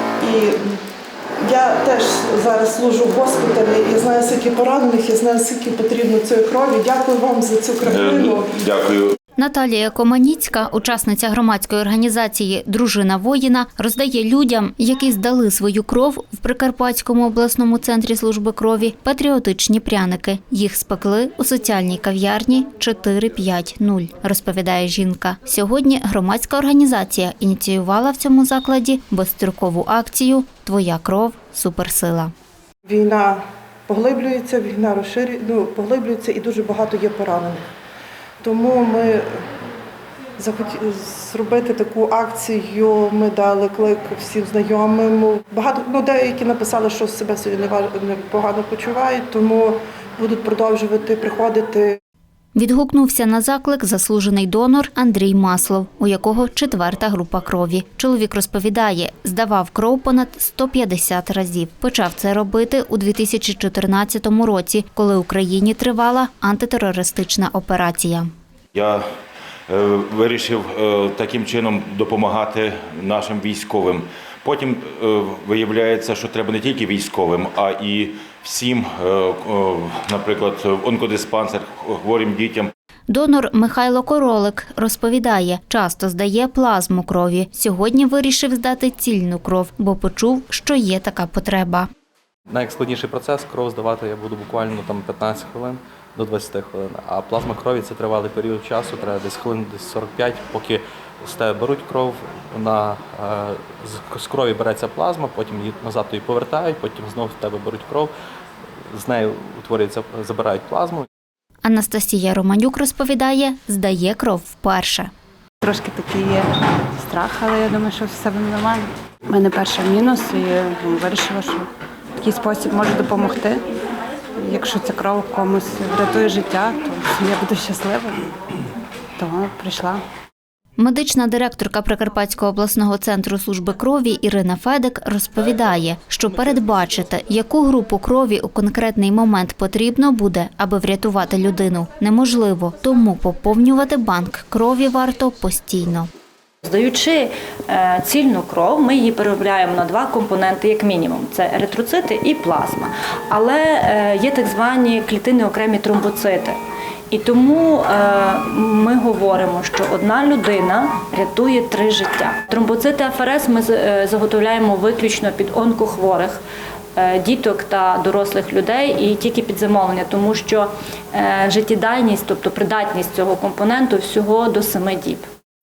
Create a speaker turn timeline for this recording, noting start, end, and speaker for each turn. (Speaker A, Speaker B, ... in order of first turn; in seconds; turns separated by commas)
Speaker A: 0.2-0.6, Speaker A: 1.4-8.5, Speaker B: 7.8-9.2, Speaker C: 9.4-32.3, Speaker A: 32.9-37.6, Speaker A: 38.4-39.3, Speaker A: 40.4-52.0, Speaker C: 52.6-68.3, Speaker B: 68.7-69.0, Speaker B: 69.7-82.7, Speaker C: 83.1-91.9, Speaker D: 92.5-108.1, Speaker D: 108.9-111.1, Speaker C: 111.7-115.1, Speaker E: 115.6-121.7, Speaker E: 122.2-123.6, Speaker E: 124.4-128.2, Speaker E: 129.2-130.0, Speaker C: 130.8-146.1, Speaker F: 146.6-156.6, Speaker F: 157.1-166.4, Speaker F: 167.0-175.3